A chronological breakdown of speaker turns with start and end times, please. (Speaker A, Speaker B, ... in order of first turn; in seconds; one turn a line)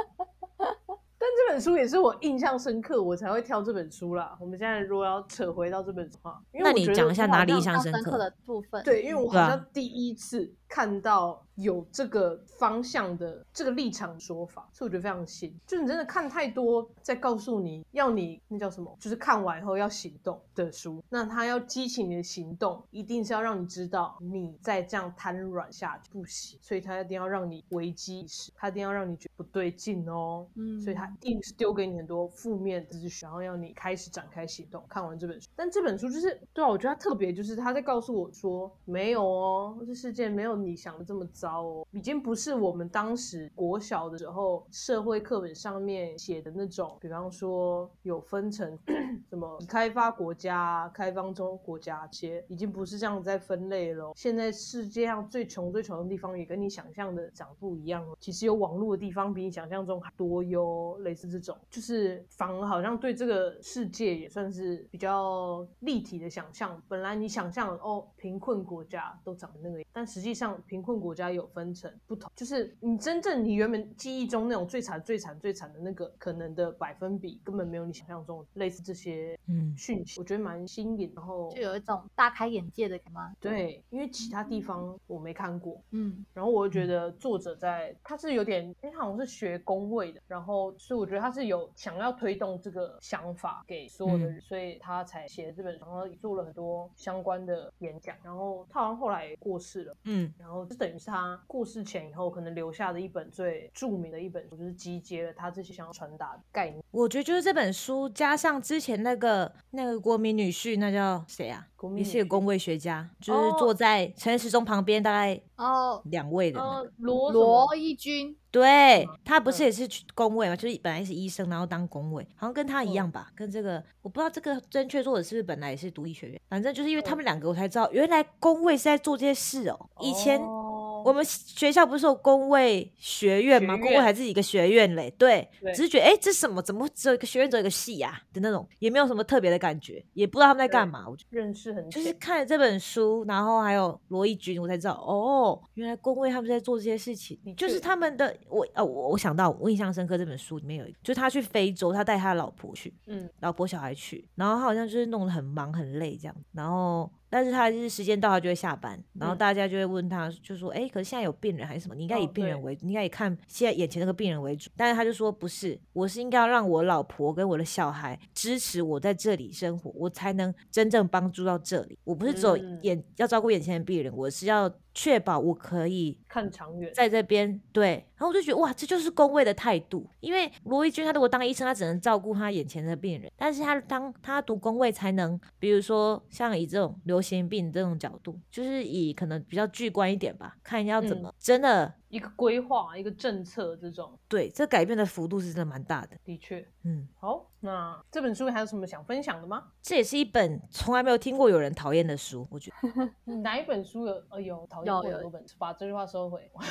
Speaker A: 1.2-7.6
Speaker B: 6.6-8.2
Speaker C: 7.5-9.2
Speaker A: 8.8-81.6
Speaker B: 9.3-9.6
Speaker C: 30.6-31.1
Speaker B: 79.5-79.8
Speaker C: 81.5-83.4
Speaker A: 83.4-85.8
Speaker C: 84.2-84.6
Speaker C: 85.9-86.3
Speaker A: 86.3-106.8
Speaker B: 94.1-94.4
Speaker B: 100.0-100.3
Speaker B: 106.9-115.4
Speaker A: 111.8-112.5
Speaker A: 113.3-113.7
Speaker C: 115.6-116.0
Speaker B: 116.0-116.8
Speaker A: 116.5-117.7
Speaker C: 117.3-118.4
Speaker B: 118.5-130.5
Speaker A: 119.0-119.7
Speaker A: 122.8-123.1
Speaker A: 130.0-131.1
Speaker B: 131.0-141.2
Speaker A: 133.5-134.1
Speaker A: 140.7-142.2
Speaker B: 141.9-176.2
Speaker A: 147.4-147.9
Speaker A: 153.1-153.3
Speaker A: 162.1-162.6
Speaker A: 172.2-172.9
Speaker A: 176.3-177.0
Speaker B: 176.9-191.9
Speaker A: 191.0-191.3
Speaker A: 192.1-194.2
Speaker B: 194.3-196.2
Speaker A: 196.3-196.7
Speaker B: 196.8-197.1
Speaker A: 197.2-199.7
Speaker B: 199.8-202.7
Speaker C: 202.8-203.1
Speaker A: 203.3-206.6
Speaker C: 204.8-205.3